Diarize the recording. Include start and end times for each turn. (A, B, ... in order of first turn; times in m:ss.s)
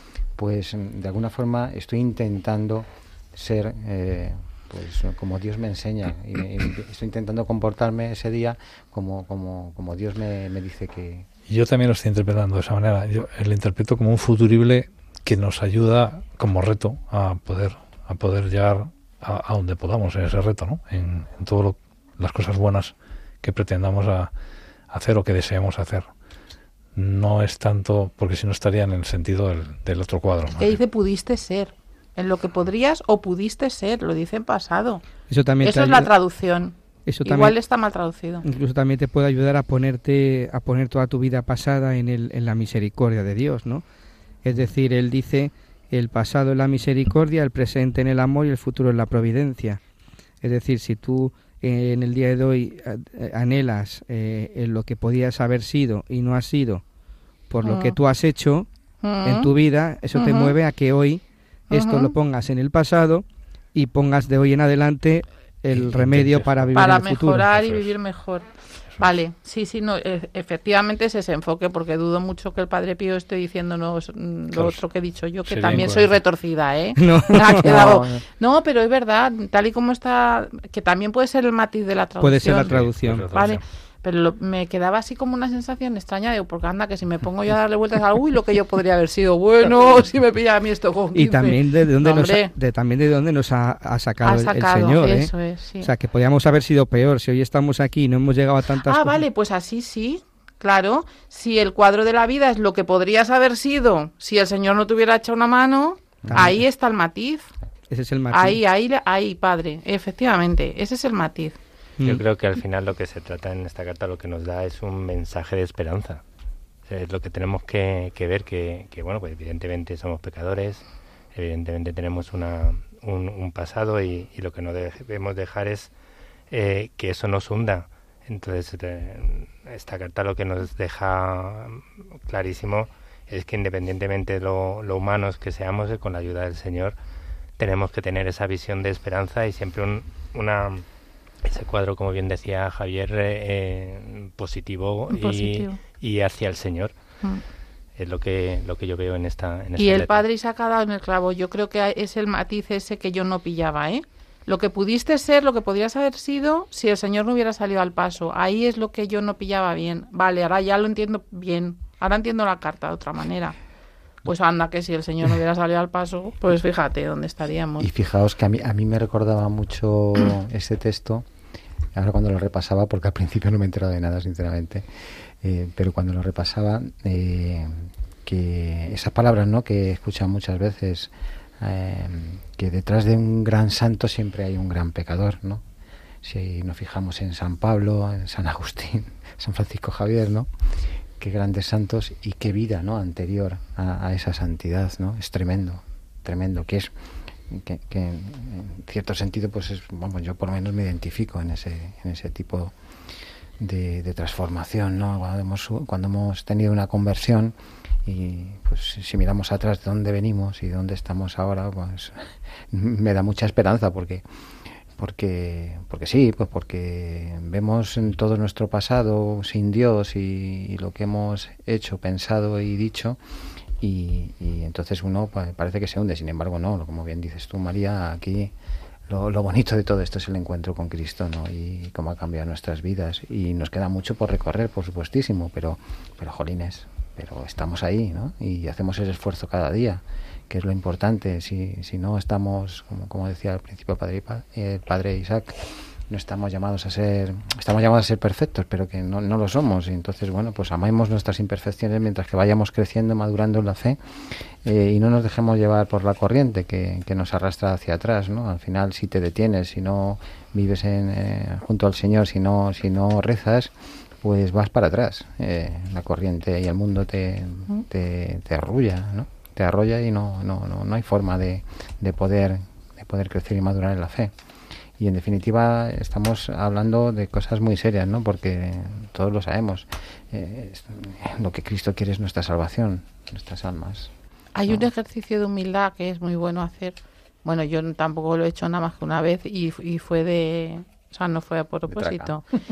0:00.4-0:11.3 A
0:11.5-0:24.3 B
0:24.9-0:26.1 B
0:26.9-0:30.8 B
0:30.6-0:35.0 C
0:35.3-0:36.1 D
0:35.6-0:38.4 C
0:37.1-0:37.6 D
0:38.4-0:43.8 D
0:44.4-0:49.8 D
0:50.4-0:56.8 D
0:57.5-0:58.7 D
0:57.6-0:58.0 C
0:59.0-0:59.5 C
0:59.2-1:07.4 D
1:00.1-1:00.5 C
1:01.7-1:02.1 C
1:05.7-1:07.9 B
1:06.7-1:32.5 C
1:14.5-1:14.8 B
1:15.4-1:16.2 B
1:17.0-1:17.8 D
1:17.6-1:18.2 A
1:22.2-1:23.2 D
1:22.6-1:23.6 B
1:31.1-1:39.2 D
1:34.2-1:35.9 C
1:38.8-1:47.5 C
1:46.2-1:46.5 A
1:46.3-1:46.6 D
1:47.9-1:48.6 D
1:48.3-1:51.6 C
1:52.0-1:56.2 E
1:56.8-2:05.9 E
2:06.5-2:17.0 E
2:17.6-2:20.8 E
2:21.4-2:27.0 E
2:25.1-2:25.8 C
2:28.0-2:30.2 E
2:29.8-2:43.6 C
2:44.2-2:47.9 C
2:47.8-2:51.3 A
2:51.9-3:05.6 A
3:06.2-3:10.5 A
3:11.2-3:16.9 A
3:17.5-3:22.7 A
3:23.6-3:27.5 A
3:28.0-3:34.2 A
3:35.0-3:43.2 A
3:43.8-3:48.5 A
3:49.1-4:34.3 A
4:35.0-4:44.1 A
4:44.5-4:52.4 C
4:51.9-4:52.4 A